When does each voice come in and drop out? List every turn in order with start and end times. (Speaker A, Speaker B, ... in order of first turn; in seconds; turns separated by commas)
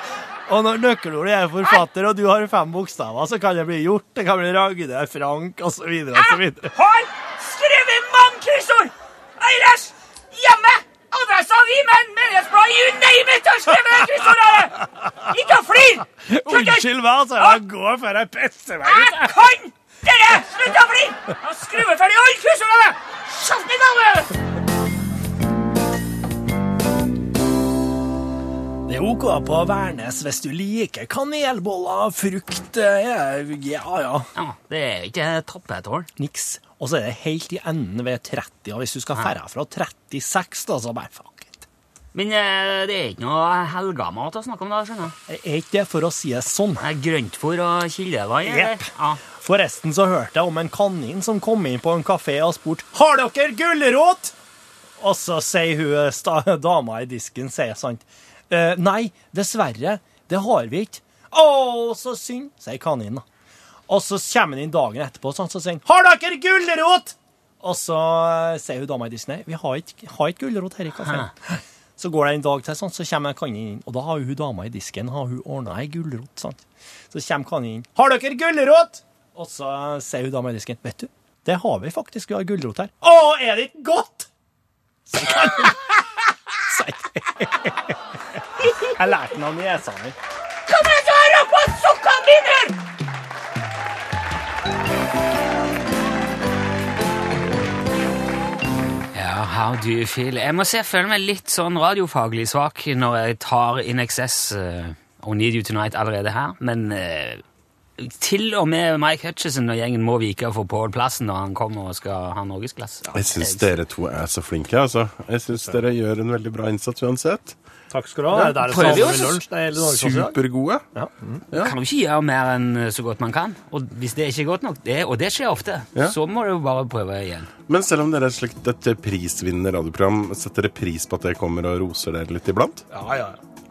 Speaker A: 0.5-6.7, Speaker B: 6.1-17.6, Speaker A: 13.9-15.3, Speaker A: 16.2-19.3, Speaker B: 18.8-24.3, Speaker A: 28.9-34.3, Speaker B: 34.3-36.1, Speaker A: 36.2-41.6, Speaker B: 42.1-45.1, Speaker A: 45.3-46.8, Speaker B: 46.8-49.2, Speaker A: 48.4-54.3, Speaker A: 55.0-63.2, Speaker A: 63.9-84.3, Speaker A: 85.1-85.9, Speaker A: 86.6-88.0, Speaker A: 88.8-90.2, Speaker B: 90.7-92.8, Speaker B: 99.1-107.4, Speaker B: 108.0-113.7, Speaker C: 113.1-117.5, Speaker A: 115.5-115.8, Speaker A: 117.9-120.3, Speaker B: 118.3-119.4, Speaker C: 118.4-120.8, Speaker A: 120.9-121.4, Speaker B: 121.5-127.5, Speaker C: 127.7-132.8, Speaker A: 132.9-133.4